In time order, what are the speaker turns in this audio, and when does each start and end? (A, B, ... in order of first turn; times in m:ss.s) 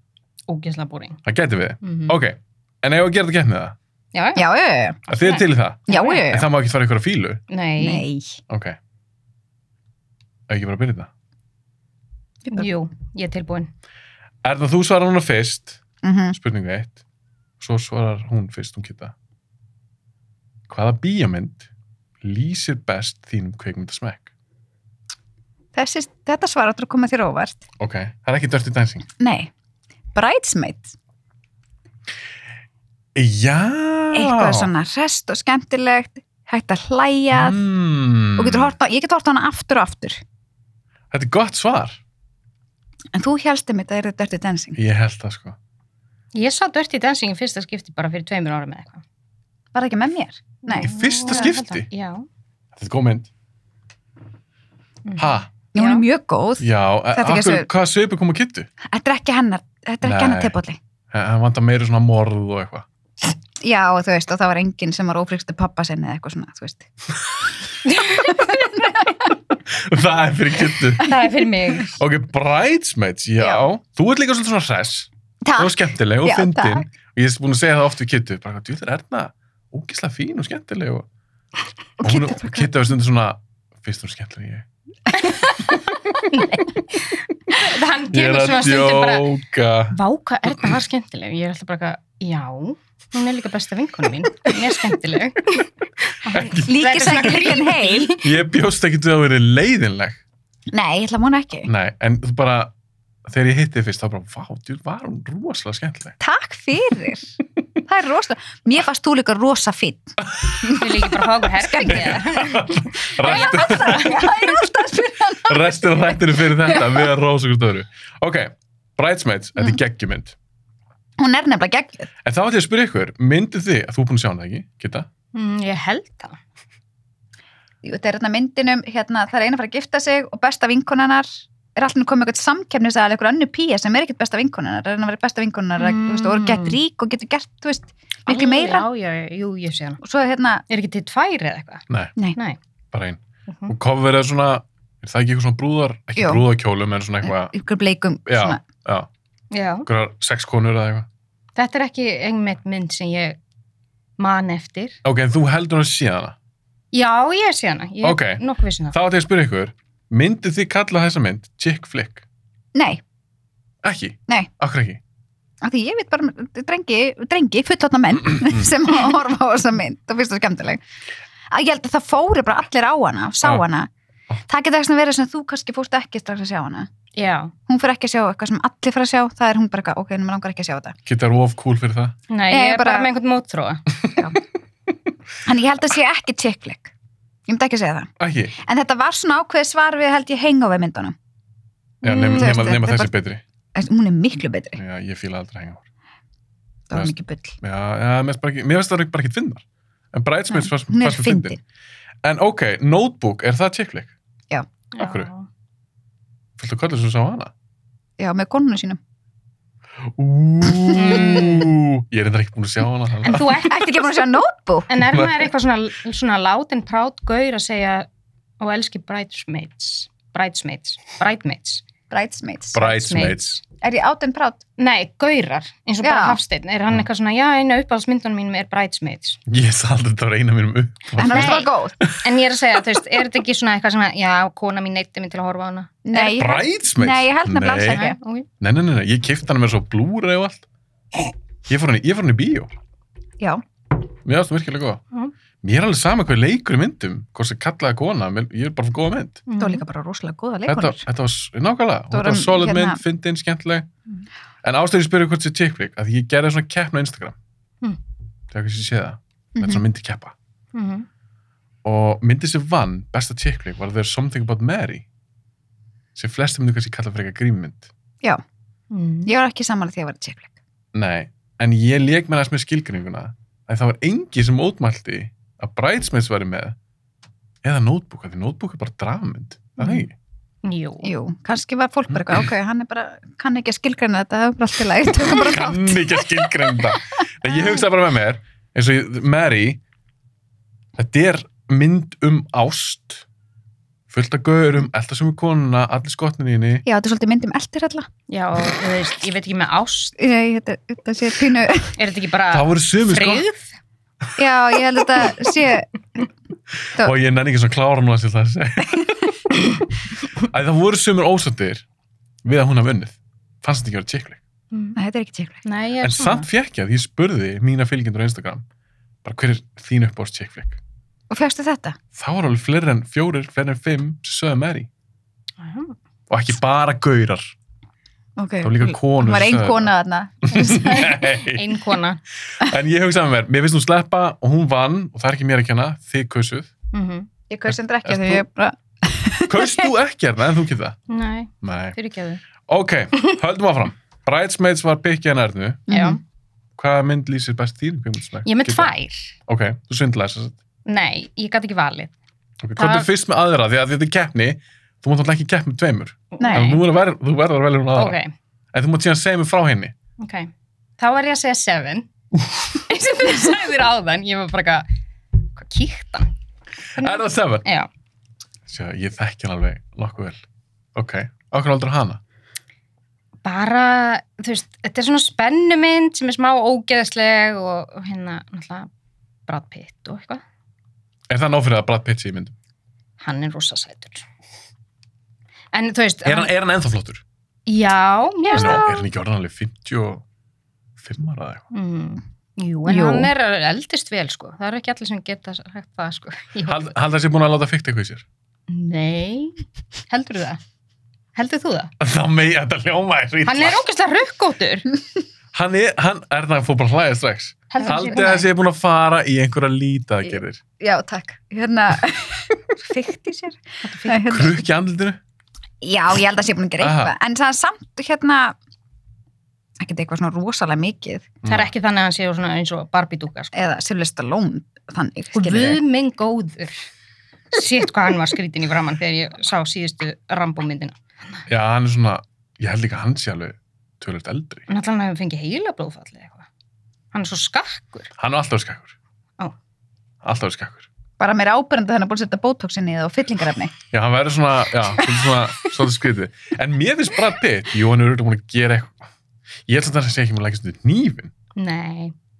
0:00.5-0:01.2 A
0:01.2-0:03.7 B
0:01.8-0:02.1 A
0:04.1-0:04.5 A
0:04.4-0:05.0 C
0:05.1-0:07.4 B
0:05.1-0:06.2 A
0:05.9-0:06.5 C
0:07.5-0:08.0 A
0:07.8-0:08.4 C
0:08.5-0:08.8 B
0:10.5-0:11.1 B
0:12.5-0:13.7 A
0:14.4-0:15.8 B
0:16.0-0:16.4 C
0:16.3-0:17.0 B
0:17.6-0:19.1 B
0:20.7-0:21.7 B
0:22.2-0:24.3 B
0:25.7-0:27.6 C
0:27.8-0:29.1 B
0:29.2-0:29.5 C
0:30.1-0:30.9 C
0:33.1-0:34.7 B
0:34.1-0:37.6 C
0:37.3-0:38.7 B
0:38.4-0:40.2 C
0:41.1-0:42.0 B
0:43.1-0:44.8 C
0:44.8-0:45.6 B
0:46.3-0:49.0 A
0:49.7-0:51.4 C
0:50.6-0:52.2 A
0:50.8-0:51.9 B
0:52.8-0:53.3 B
0:55.0-0:56.0 A
0:55.2-0:55.5 B
0:55.7-0:57.7 C
0:56.6-0:58.7 B
0:58.8-1:00.8 C
1:00.0-1:00.6 B
1:01.1-1:02.8 B
1:03.6-1:06.9 C
1:07.9-1:08.6 A
1:08.4-1:08.8 C
1:09.7-1:11.1 B
1:11.0-1:12.0 A
1:11.9-1:21.0 B
1:15.4-1:16.8 C
1:22.0-1:22.7 C
1:22.0-1:24.6 B
1:26.3-1:26.7 A
1:27.5-1:29.3 A
1:28.1-1:30.0 B
1:29.9-1:35.7 A
1:36.2-1:38.3 A
1:36.3-1:37.6 B
1:36.6-1:38.2 C
1:38.1-1:40.2 B
1:40.7-1:41.7 C
1:41.7-1:42.7 B
1:43.2-1:46.2 B
1:46.2-1:47.3 C
1:47.8-1:50.9 C
1:50.2-1:50.8 B
1:50.7-1:54.3 A
1:51.6-1:52.2 C
1:51.8-1:54.6 B
1:53.2-1:57.0 C
1:55.2-2:00.3 B
2:01.2-2:02.1 C
2:02.2-2:05.1 B
2:05.3-2:06.4 A
2:07.8-2:18.9 C
2:15.8-2:16.8 A
2:18.3-2:20.0 A
2:20.0-2:20.6 C
2:20.7-2:22.6 A
2:22.9-2:27.5 B
2:26.2-2:26.4 C
2:27.2-2:28.6 C
2:28.2-2:29.1 B
2:29.5-2:29.9 A
2:29.8-2:31.1 B
2:31.6-2:33.4 A
2:34.2-2:35.0 A
2:35.0-2:36.4 B
2:36.9-2:38.9 A
2:38.0-2:42.2 B
2:42.7-2:43.0 C
2:43.8-2:45.0 B
2:45.6-2:50.8 C
2:51.5-2:53.9 C
2:54.5-2:56.9 C
2:57.2-2:57.5 A
2:57.7-3:01.0 C
3:01.0-3:02.2 B
3:02.3-3:03.9 A
3:02.5-3:03.1 C
3:05.4-3:06.9 C
3:07.5-3:11.1 C
3:08.2-3:08.6 B
3:12.0-3:13.4 B
3:12.0-3:12.7 A
3:12.3-3:13.1 C
3:13.7-3:14.8 C
3:14.8-3:15.8 B
3:16.9-3:17.6 C
3:16.9-3:21.6 B
3:20.5-3:21.6 C
3:22.2-3:24.1 B
3:24.9-3:25.5 A
3:25.0-3:25.3 B
3:26.6-3:27.5 B
3:28.2-3:29.0 C
3:30.0-3:33.6 B
3:30.9-3:31.4 C
3:30.9-3:31.7 A
3:33.2-3:34.2 A
3:33.6-3:34.9 C
3:34.9-3:38.1 A
3:35.0-3:35.4 B
3:38.6-3:41.8 A
3:42.1-3:42.8 C
3:42.7-3:43.6 B
3:42.8-3:43.5 A
3:43.8-3:44.6 C
3:44.8-3:49.4 A
3:46.0-3:46.4 C
3:49.5-3:52.2 B
3:51.2-3:52.0 C
3:51.2-3:56.4 A
3:56.0-3:58.2 C
3:56.3-3:58.0 B
3:57.9-3:58.5 A
3:58.6-4:00.6 B
4:01.7-4:02.7 B
4:04.2-4:05.0 B
4:05.6-4:09.4 B
4:09.5-4:09.8 A
4:09.6-4:11.0 C
4:10.6-4:13.9 B
4:12.1-4:13.0 C
4:14.6-4:17.4 B
4:18.5-4:20.3 B
4:19.5-4:19.8 C
4:20.7-4:21.1 A
4:21.8-4:25.0 B
4:26.1-4:27.9 B
4:28.9-4:29.3 A
4:29.2-4:30.5 C
4:30.9-4:36.8 B
4:37.6-4:40.1 B
4:40.6-4:41.1 A
4:41.0-4:46.8 C
4:42.1-4:42.4 B
4:45.3-4:49.8 B
4:51.0-4:53.2 B
4:54.1-4:56.8 B
4:56.8-4:58.1 C
4:58.3-5:00.1 A
5:00.2-5:02.0 C
5:02.0-5:03.7 A
5:02.5-5:03.4 B
5:04.4-5:05.9 C
5:06.8-5:09.3 B
5:10.4-5:11.8 B
5:12.4-5:14.4 B
5:14.7-5:15.0 A
5:14.9-5:15.6 C
5:15.6-5:16.5 A
5:16.0-5:18.6 B
5:19.2-5:20.8 B
5:21.3-5:22.0 C
5:22.1-5:24.9 B
5:25.6-5:26.0 A
5:26.3-5:27.5 B
5:28.4-5:31.0 C
5:28.6-5:29.9 B
5:30.5-5:31.7 B
5:30.5-5:32.2 A
5:32.5-5:36.7 B
5:36.9-5:37.3 A
5:37.5-5:39.9 C
5:37.7-5:38.4 B
5:39.5-5:41.0 B
5:41.1-5:42.4 A
5:41.6-5:42.0 B
5:42.7-5:45.9 B
5:45.9-5:46.2 C
5:45.9-5:46.2 A
5:46.8-5:48.9 B
5:48.4-5:49.3 A
5:49.5-5:50.6 B
5:50.8-5:52.1 A
5:52.6-5:58.2 B
5:52.8-5:53.1 A
5:56.4-5:56.8 A
5:56.4-5:56.7 C
5:57.9-5:58.3 A
5:58.7-5:59.9 B
6:00.2-6:02.1 A
6:02.8-6:04.8 A
6:05.5-6:06.3 A
6:07.0-6:07.6 B
6:07.0-6:07.9 A
6:08.7-6:10.4 B
6:10.9-6:12.2 B
6:13.4-6:18.9 A
6:19.5-6:20.4 A
6:21.3-6:22.5 B
6:23.2-6:24.2 A
6:25.7-6:26.5 A
6:26.2-6:27.2 B
6:27.7-6:29.0 A
6:28.5-6:28.8 C
6:28.5-6:30.2 B
6:31.0-6:31.6 B
6:31.7-6:36.8 A
6:32.8-6:33.3 C
6:36.6-6:38.2 B
6:38.7-6:40.6 A
6:41.3-6:41.9 A
6:42.0-6:43.8 B
6:43.4-6:44.9 A
6:45.5-6:50.6 B
6:47.7-6:48.4 A
6:47.8-6:48.4 C
6:50.8-6:54.6 C
6:53.8-6:54.2 A
6:54.2-6:55.2 B
6:55.8-6:58.6 C
6:56.8-6:57.1 B
6:59.8-7:01.3 C
7:01.4-7:01.7 B
7:01.4-7:03.5 A
7:03.5-7:05.8 C
7:05.3-7:06.8 A
7:07.5-7:11.4 A
7:11.5-7:14.7 B
7:14.7-7:16.4 A
7:17.1-7:18.1 A
7:18.2-7:18.9 B
7:20.2-7:20.9 B
7:21.2-7:23.7 C
7:23.9-7:29.1 B
7:29.7-7:31.3 B
7:31.6-7:32.1 A